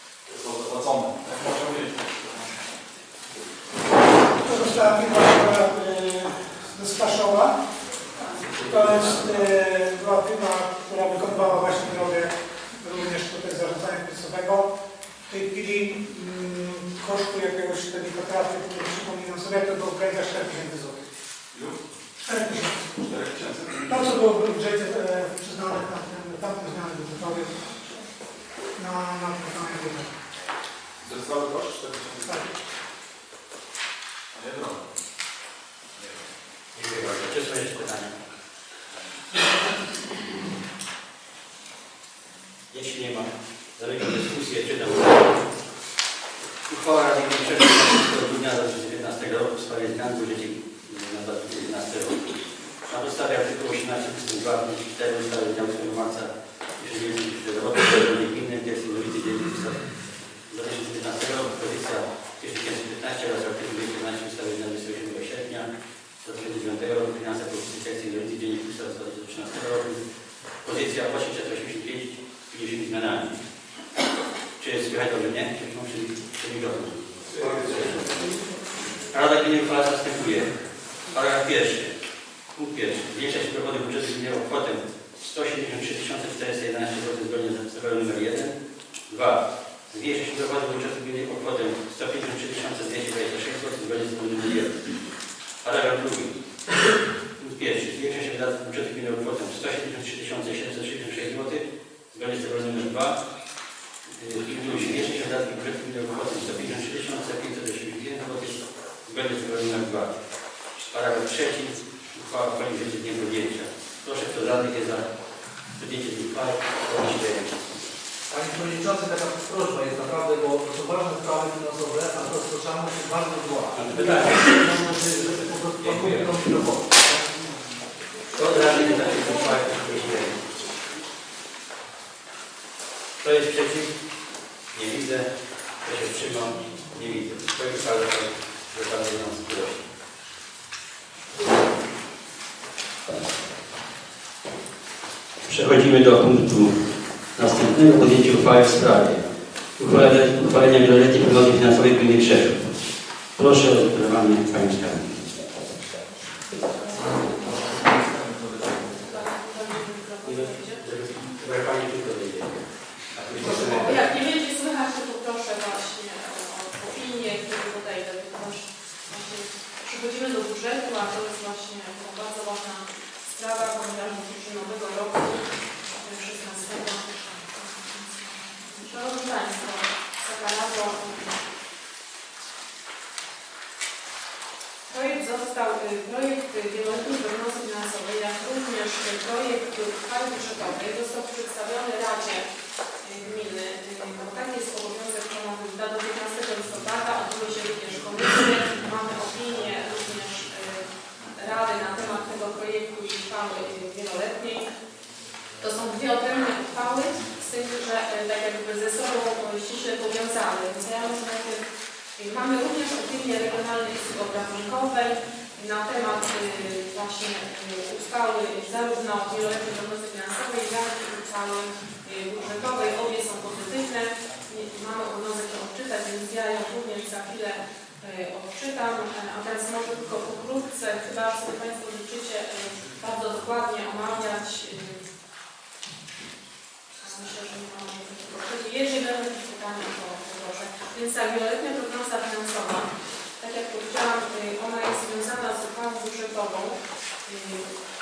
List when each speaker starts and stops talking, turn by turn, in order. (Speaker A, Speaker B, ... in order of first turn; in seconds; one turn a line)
Speaker A: 0.3-2.5
Speaker B: 4.4-7.6
Speaker B: 8.6-14.7
Speaker B: 15.3-21.0
Speaker B: 22.2-22.9
Speaker A: 23.0-24.1
Speaker B: 23.9-27.7
Speaker B: 28.8-30.1
Speaker A: 31.0-32.4
Speaker B: 32.2-32.5
Speaker A: 34.3-34.8
Speaker C: 36.7-38.2
Speaker C: 42.7-45.5
Speaker C: 46.7-52.2
Speaker C: 52.9-59.8
Speaker C: 60.5-65.7
Speaker C: 66.2-70.0
Speaker C: 70.6-73.3
Speaker C: 74.6-78.0
Speaker A: 77.5-78.0
Speaker C: 79.1-80.5
Speaker C: 81.1-81.9
Speaker C: 82.5-88.5
Speaker C: 89.1-94.8
Speaker C: 95.6-96.4
Speaker C: 97.4-103.2
Speaker C: 104.2-110.2
Speaker C: 110.8-115.1
Speaker C: 115.8-117.6
Speaker D: 118.3-127.2
Speaker C: 123.7-126.4
Speaker C: 128.3-130.3
Speaker E: 128.7-129.3
Speaker C: 133.2-134.0
Speaker C: 134.7-135.3
Speaker C: 135.8-139.9
Speaker C: 145.4-149.2
Speaker C: 149.8-152.8
Speaker C: 153.4-155.2
Speaker E: 156.8-158.0
Speaker E: 159.0-160.8
Speaker C: 160.2-162.6
Speaker C: 163.1-164.0
Speaker D: 163.4-163.9
Speaker E: 163.5-175.4
Speaker E: 176.0-181.4
Speaker E: 184.9-192.5
Speaker E: 193.0-204.7
Speaker E: 205.6-211.6
Speaker E: 212.2-235.1
Speaker E: 237.0-242.9
Speaker E: 243.4-247.7